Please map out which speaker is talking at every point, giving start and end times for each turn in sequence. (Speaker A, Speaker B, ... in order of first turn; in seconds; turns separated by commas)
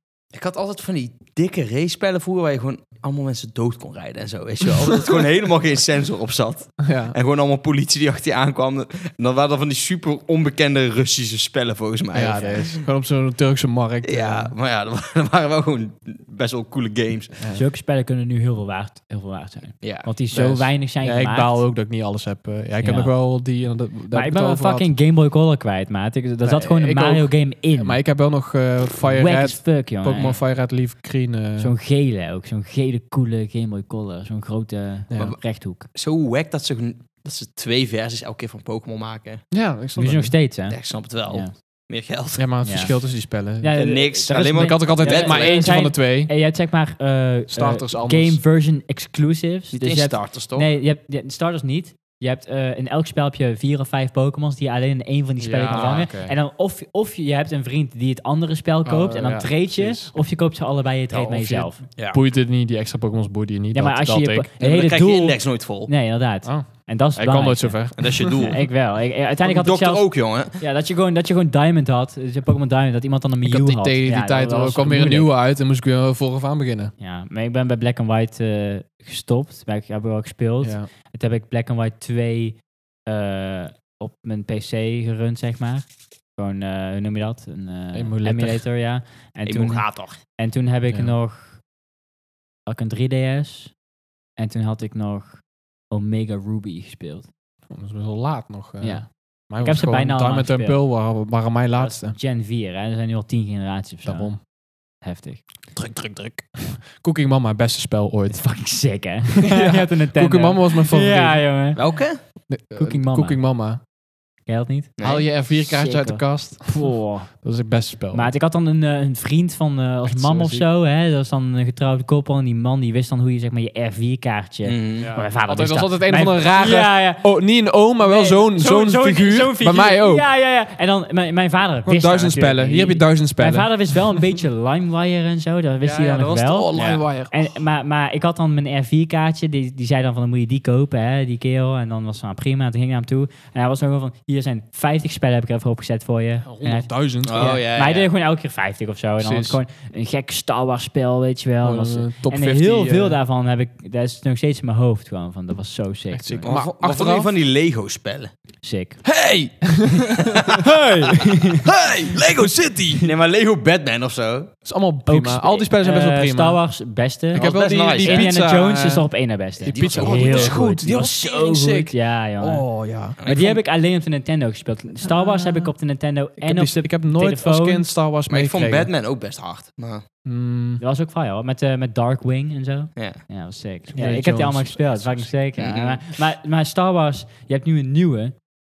Speaker A: 0.3-12.8, Speaker B: 6.8-7.2, Speaker B: 12.1-14.5, Speaker A: 14.0-17.4, Speaker C: 17.5-21.7, Speaker A: 19.8-20.1, Speaker B: 20.3-24.9, Speaker C: 22.8-23.2, Speaker C: 24.1-28.0, Speaker B: 26.4-31.7, Speaker C: 29.0-30.4, Speaker C: 31.6-35.9, Speaker B: 35.1-35.4, Speaker A: 35.1-39.4, Speaker B: 39.5-40.3, Speaker C: 40.0-41.5, Speaker A: 40.7-42.5, Speaker B: 42.4-43.8, Speaker C: 42.6-43.0, Speaker C: 43.6-61.8, Speaker A: 43.7-45.6, Speaker B: 44.4-46.3, Speaker B: 47.5-48.4, Speaker A: 49.7-50.7, Speaker B: 55.4-56.3, Speaker A: 55.7-56.1, Speaker B: 58.9-60.1, Speaker B: 61.1-64.5, Speaker C: 63.7-75.3, Speaker A: 64.6-65.9, Speaker B: 66.5-68.4, Speaker A: 68.0-68.8, Speaker A: 69.4-70.6, Speaker B: 73.4-76.9, Speaker C: 77.0-91.6, Speaker B: 80.6-80.9, Speaker B: 87.9-88.7, Speaker A: 89.5-90.2, Speaker B: 90.9-91.2, Speaker C: 92.7-93.8, Speaker C: 94.4-97.3, Speaker B: 97.7-102.2, Speaker C: 98.8-100.8, Speaker C: 101.8-105.4, Speaker B: 104.0-104.4, Speaker B: 105.8-108.7, Speaker C: 108.3-113.4, Speaker B: 109.4-111.5, Speaker A: 111.8-112.2, Speaker B: 112.5-113.8, Speaker C: 114.5-117.4, Speaker A: 115.0-115.3, Speaker B: 115.0-118.3, Speaker C: 118.1-156.5, Speaker B: 120.1-120.7, Speaker A: 124.6-125.1, Speaker B: 125.0-130.3, Speaker B: 131.8-134.1, Speaker B: 135.8-137.6, Speaker A: 136.7-137.0, Speaker B: 146.4-147.6, Speaker A: 147.2-148.1, Speaker B: 149.2-149.6, Speaker B: 151.6-153.2, Speaker B: 156.1-157.3, Speaker A: 156.4-158.3, Speaker C: 158.6-159.0, Speaker B: 159.0-160.4, Speaker C: 160.6-161.6, Speaker A: 161.7-164.5, Speaker B: 162.1-163.0, Speaker B: 164.7-166.6, Speaker C: 165.1-172.7, Speaker B: 167.3-173.2, Speaker A: 167.3-168.4, Speaker A: 169.7-171.2, Speaker A: 173.2-173.6, Speaker C: 173.2-177.9, Speaker B: 175.0-175.7, Speaker B: 176.4-178.9, Speaker A: 178.3-180.0, Speaker B: 180.2-180.8, Speaker C: 180.8-188.4, Speaker A: 183.0-183.2, Speaker B: 183.9-185.3, Speaker A: 185.6-186.0